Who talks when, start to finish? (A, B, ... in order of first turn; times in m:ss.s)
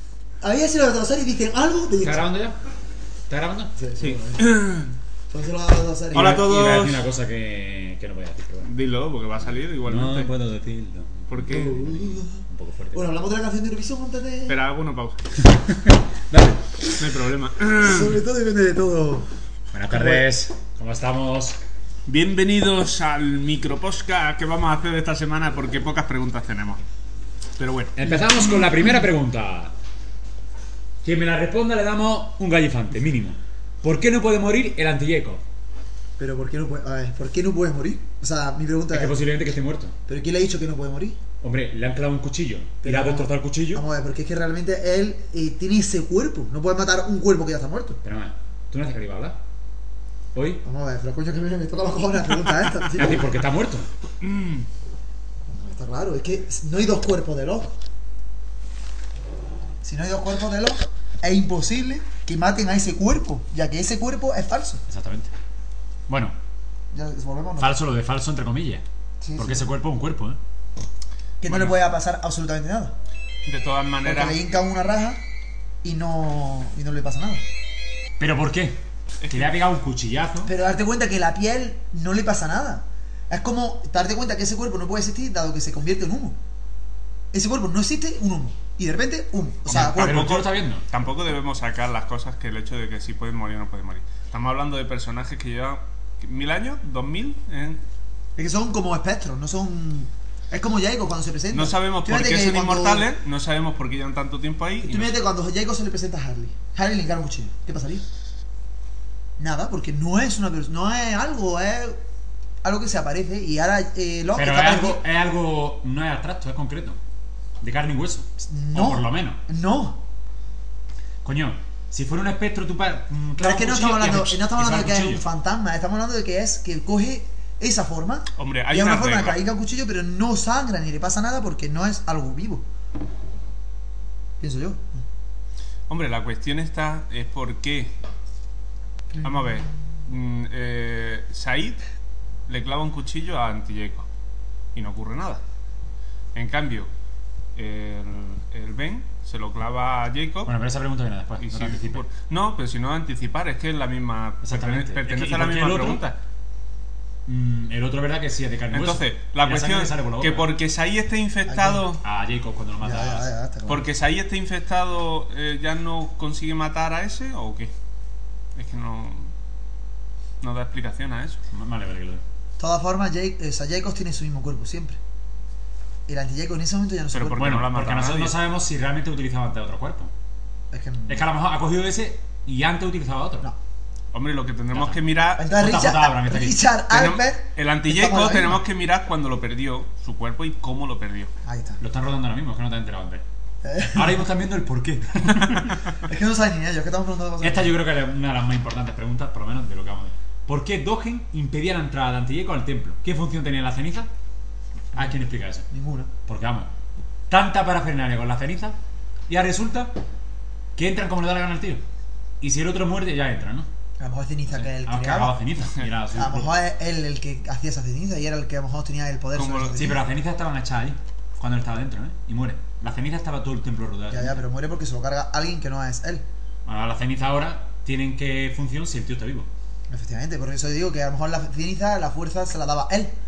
0:00.4-0:02.3 A
0:02.0-0:02.6 B
0:03.3-0:04.2 B
0:03.8-0:04.5 A
0:04.0-0:04.9 C
0:05.3-0:06.5 A
0:06.1-0:07.1 C
0:06.1-0:08.7 B
0:08.6-0:10.3 C
0:09.8-0:13.0 B
0:11.3-0:11.8 C
0:11.5-0:14.6 A
0:14.5-0:15.3 C
0:15.4-0:16.8 B
0:17.0-0:18.2 C
0:17.8-0:19.3 A
0:19.7-0:21.6 B
0:19.9-0:20.3 A
0:22.1-0:26.8 C
0:27.6-0:28.0 C
0:28.0-0:29.7 B
0:31.0-0:35.4 B
0:36.2-0:39.2 A
0:38.9-0:40.0 B
0:40.1-0:41.2 A
0:41.4-0:43.8 B
0:42.8-0:48.0 A
0:48.0-0:49.4 B
0:50.3-0:50.6 B
0:50.6-0:53.3 A
0:52.8-0:53.9 B
0:54.2-0:54.7 C
0:55.5-0:57.7 A
0:59.8-1:04.8 A
1:04.9-1:05.3 B
1:06.1-1:06.3 B
1:06.9-1:07.8 A
1:07.6-1:08.8 B
1:09.2-1:09.7 A
1:09.4-1:10.4 B
1:11.4-1:12.9 A
1:13.4-1:14.4 C
1:14.0-1:15.2 A
1:15.8-1:17.4 A
1:18.2-1:20.5 B
1:20.4-1:26.4 A
1:27.3-1:30.3 A
1:29.7-1:30.8 B
1:29.7-1:37.8 C
1:38.4-1:43.1 A
1:41.5-1:45.2 C
1:44.8-1:48.0 A
1:49.4-1:52.0 A
1:52.6-1:55.0 A
1:54.3-1:57.0 B
1:57.6-1:59.4 B
1:58.4-2:00.0 A
2:01.2-2:05.2 B
2:03.4-2:12.6 A
2:08.4-2:09.4 C
2:14.4-2:15.0 A
2:15.9-2:17.9 C
2:19.1-2:19.5 A
2:19.2-2:21.8 C
2:22.5-2:24.1 C
2:24.7-2:25.4 C
2:26.3-2:26.9 C
2:27.5-2:30.5 C
2:30.4-2:32.0 B
2:31.4-2:36.2 C
2:34.4-2:36.0 B
2:37.2-2:40.5 B
2:38.7-2:42.0 C
2:41.5-2:41.9 A
2:42.0-2:43.3 B
2:42.8-2:43.9 A
2:43.7-2:47.7 C
2:48.6-2:49.3 C
2:50.4-2:51.4 C
2:51.5-2:52.2 B
2:52.6-2:55.0 A
2:56.1-2:57.5 A
2:57.1-2:58.3 C
2:57.3-3:00.1 B
3:00.7-3:01.2 A
3:01.1-3:03.5 B
3:04.1-3:05.5 C
3:04.7-3:06.7 B
3:05.4-3:08.6 A
3:06.9-3:11.3 C
3:11.4-3:11.8 A
3:11.8-3:13.2 B
3:13.6-3:14.1 A
3:13.9-3:15.8 B
3:15.4-3:15.7 C
3:15.9-3:17.8 A
3:17.4-3:24.1 B
3:24.9-3:25.7 B
3:25.7-3:26.1 A
3:26.2-3:26.7 B
3:27.3-3:28.8 B
3:29.3-3:30.0 B
3:30.8-3:31.8 B
3:32.4-3:33.7 B
3:34.0-3:35.4 A
3:34.5-3:36.6 B
3:36.1-3:40.0 A
3:39.3-3:39.8 C
3:39.8-3:44.4 B
3:44.1-3:46.2 A
3:46.7-3:49.5 B
3:49.9-3:53.1 A